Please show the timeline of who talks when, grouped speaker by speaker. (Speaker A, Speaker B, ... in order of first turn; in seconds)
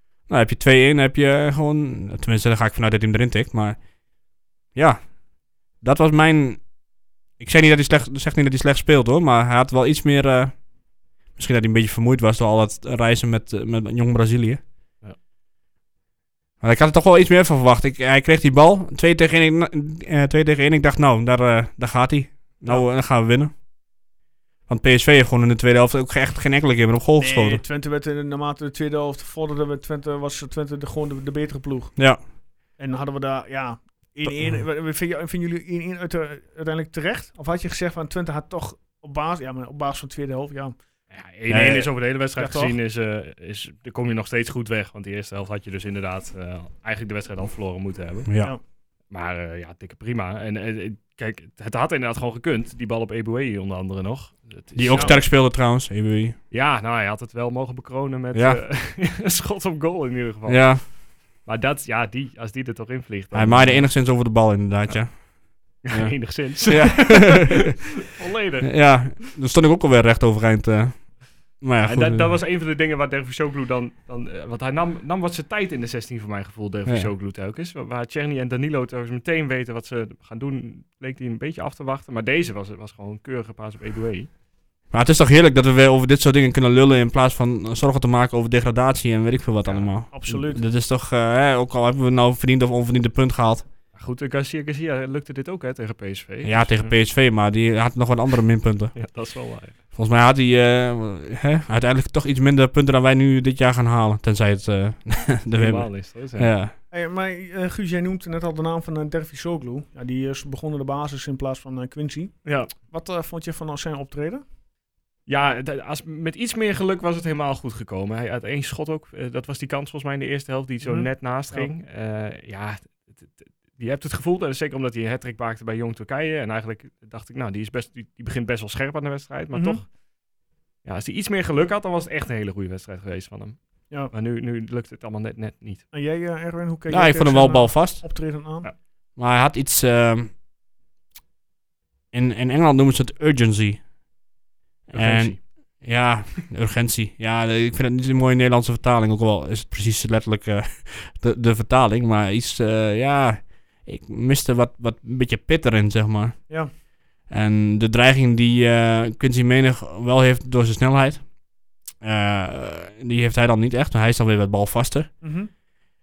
Speaker A: 0.3-3.8, 4.8-5.2, 5.8-6.7, 7.4-10.6, 11.4-14.6, 16.6-23.5, 24.7-27.6, 32.0-32.2, 34.3-34.6, 41.5-41.9, 48.3-48.5, 54.8-56.4, 58.3-58.6, 60.5-60.8, 63.3-67.8, 68.6-72.3, 84.9-93.7, 96.4-99.0, 99.9-106.7, 136.9-138.0, 139.2-140.3, 142.1-143.8, 144.9-156.7, 157.3-161.3, 162.0-165.1
Speaker B: 27.2-31.9, 32.8-40.8, 42.4-42.8, 54.9-55.2, 90.1-90.6, 106.9-114.4, 120.8-121.7, 129.5-129.8, 135.9-138.7, 165.2-165.5
Speaker C: 41.1-48.3, 49.1-55.3, 56.5-60.9, 61.5-63.9, 65.8-69.0, 71.8-84.3, 93.9-97.0, 99.0-99.8, 105.5-106.5, 112.5-112.7, 115.3-129.9, 130.8-135.9, 144.9-145.4